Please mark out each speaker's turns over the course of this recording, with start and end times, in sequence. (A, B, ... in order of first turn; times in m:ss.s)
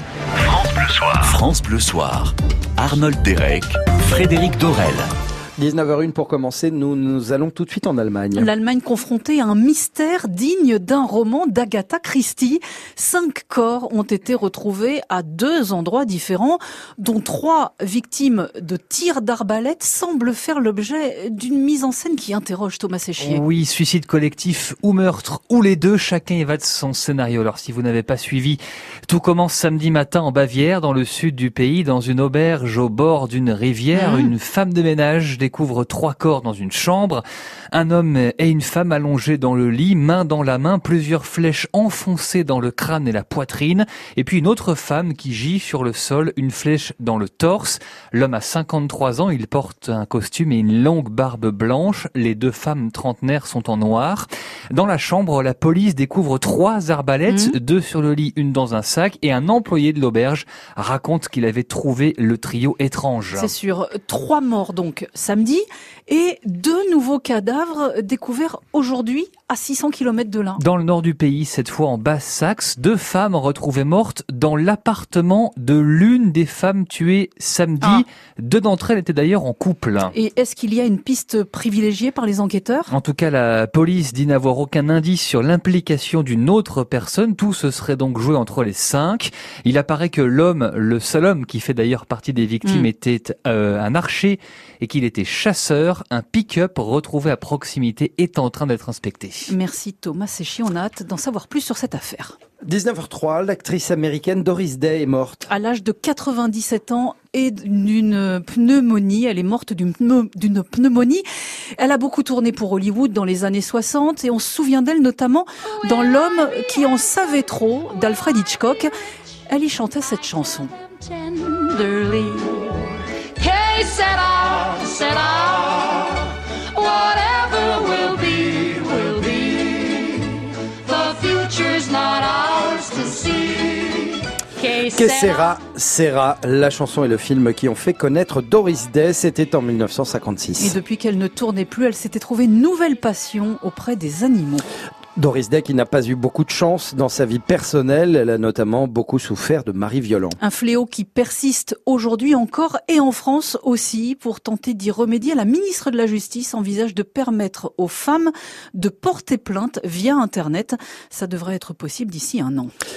0:00.5-0:05.0 A
0:05.6-0:08.5 B
0:08.4-0:23.4 C
0:23.2-1:03.5 D
0:33.9-0:34.3 C
0:57.3-0:57.5 C
1:03.3-1:10.6 C
1:10.6-1:20.1 D
1:20.1-1:22.9 C
1:22.9-1:39.5 D
1:32.6-1:32.9 C
1:39.5-1:42.4 C
1:42.6-1:45.4 B
1:45.5-1:51.2 C
1:51.8-1:58.9 C
1:59.5-2:00.7 C
2:01.6-2:02.4 C
2:03.4-2:05.7 E
2:06.8-2:09.8 E
2:10.9-2:13.1 E
2:14.8-2:20.8 B
2:14.9-2:15.3 E
2:20.6-2:24.6 C
2:25.2-2:30.4 B
2:30.4-2:42.7 C